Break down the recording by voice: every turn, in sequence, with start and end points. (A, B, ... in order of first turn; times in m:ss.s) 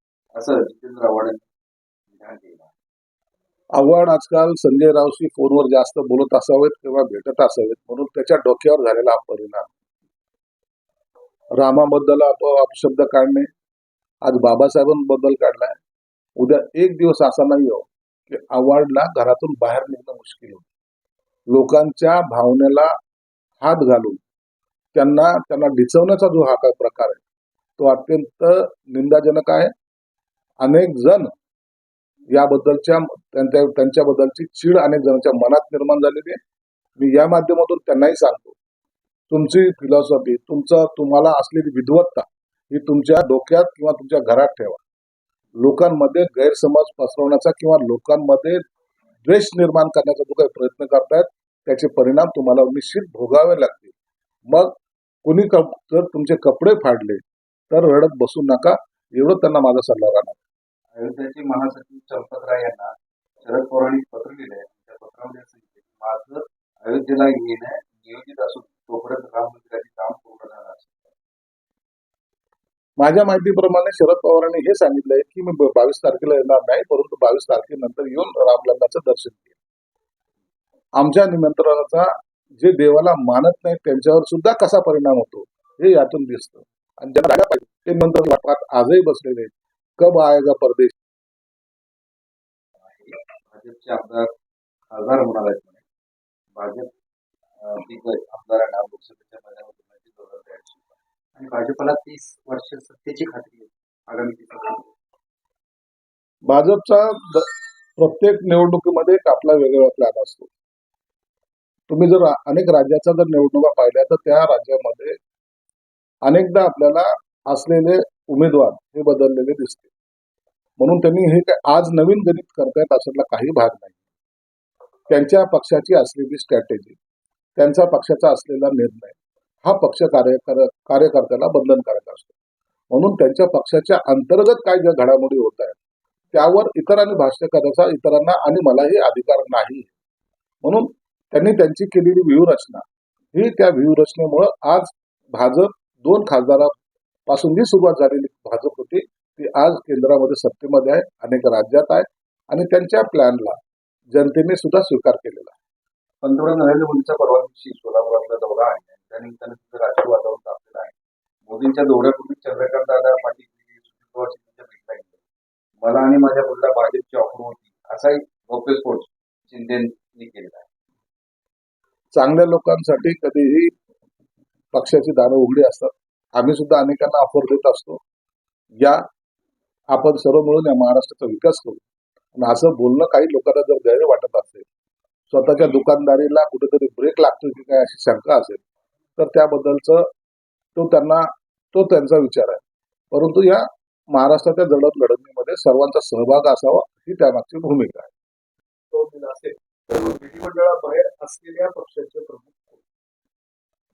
0:00.3-0:01.4 A
0:02.1-0:02.7 A
0:03.8-0:09.7 B
0:11.6-0:13.5 B
0:14.2-0:15.8 B
0:16.4-0:20.7 B
0:21.5-0:22.9 B
0:23.6-0:24.2 B
0:24.9-0:27.2 B
0:27.8-0:29.7 B
0:30.6-0:31.3 B
0:32.3-0:36.4 B
0:37.0-0:38.6 B
0:39.3-0:44.8 B
0:45.6-0:48.6 B
0:49.2-0:53.9 B
0:54.5-1:00.4 B
1:01.0-1:11.1 A
1:13.0-1:19.5 B
1:21.0-1:31.0 B
1:32.9-1:34.3 A
1:34.9-1:35.8 A
1:36.6-1:36.9 A
1:37.6-1:44.9 A
1:46.5-1:50.5 B
1:51.9-1:55.2 B
1:56.2-1:59.9 B
2:00.8-2:04.0 B
2:05.1-2:07.0 B
2:07.6-2:12.3 B
2:12.9-2:15.8 B
2:16.3-2:19.9 B
2:20.6-2:26.7 B
2:27.3-2:33.6 B
2:34.1-2:35.6 B
2:36.2-2:45.2 A
2:45.8-2:50.7 A
2:52.2-2:53.7 B
2:54.7-2:58.0 B
2:58.8-2:59.0 B
2:59.9-3:01.8 B
3:02.4-3:04.7 B
3:05.3-3:08.6 B
3:09.2-3:10.1 B
3:10.8-3:18.1 B
3:18.9-3:22.8 C